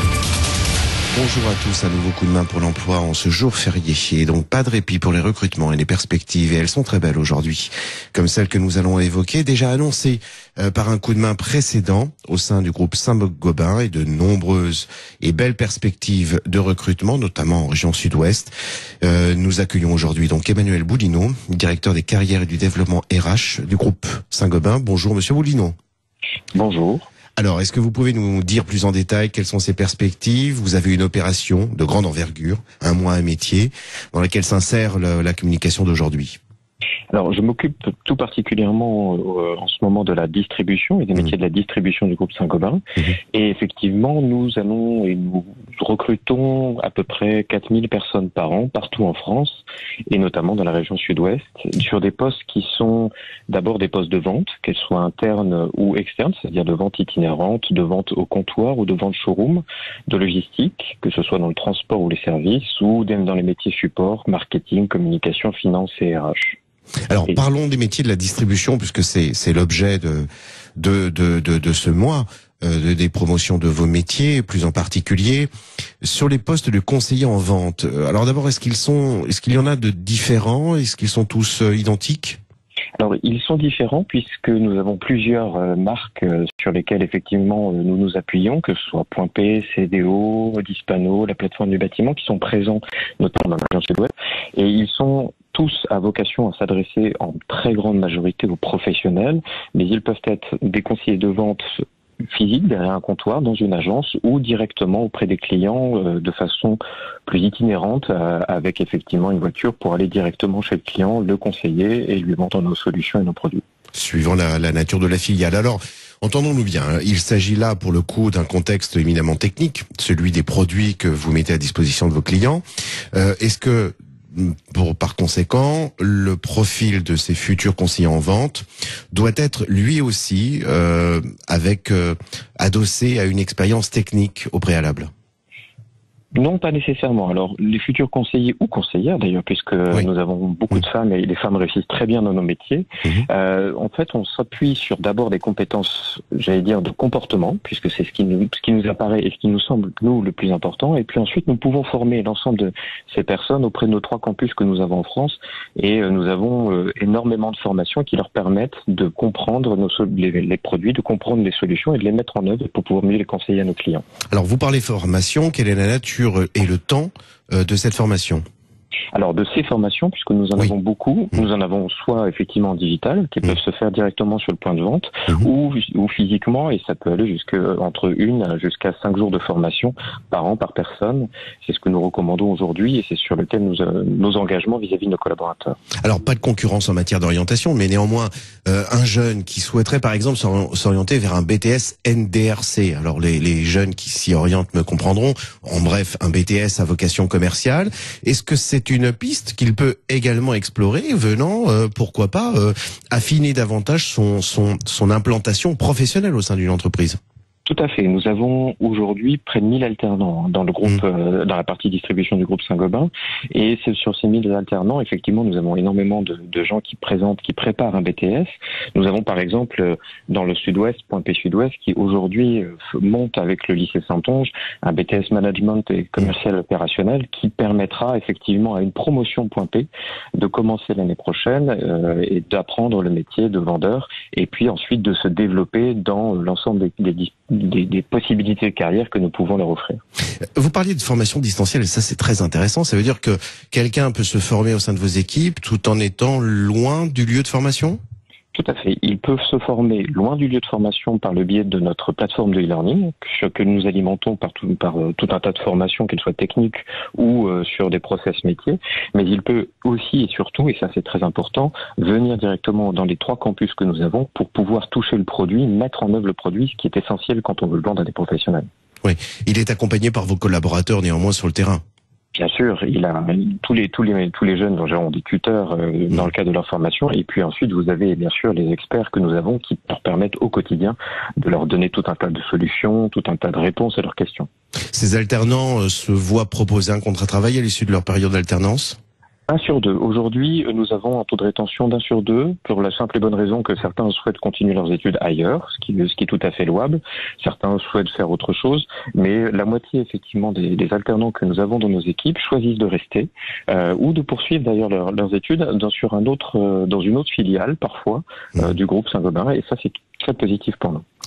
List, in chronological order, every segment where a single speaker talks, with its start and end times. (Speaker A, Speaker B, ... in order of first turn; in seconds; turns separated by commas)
Speaker A: 1.1-25.8, Speaker B: 26.6-27.1, Speaker A: 27.4-36.4, Speaker B: 37.1-42.8, Speaker B: 43.3-66.6, Speaker A: 67.1-75.5, Speaker A: 76.0-82.4, Speaker B: 83.0-101.6, Speaker B: 102.3-113.6, Speaker A: 113.9-135.1, Speaker B: 136.3-164.1, Speaker A: 164.3-168.4, Speaker B: 169.1-185.8, Speaker A: 186.0-207.2, Speaker B: 207.7-240.0, Speaker A: 240.6-248.0, Speaker B: 248.5-268.7, Speaker A: 269.0-271.8, Speaker B: 272.4-284.5, Speaker A: 284.9-289.0, Speaker B: 289.5-311.0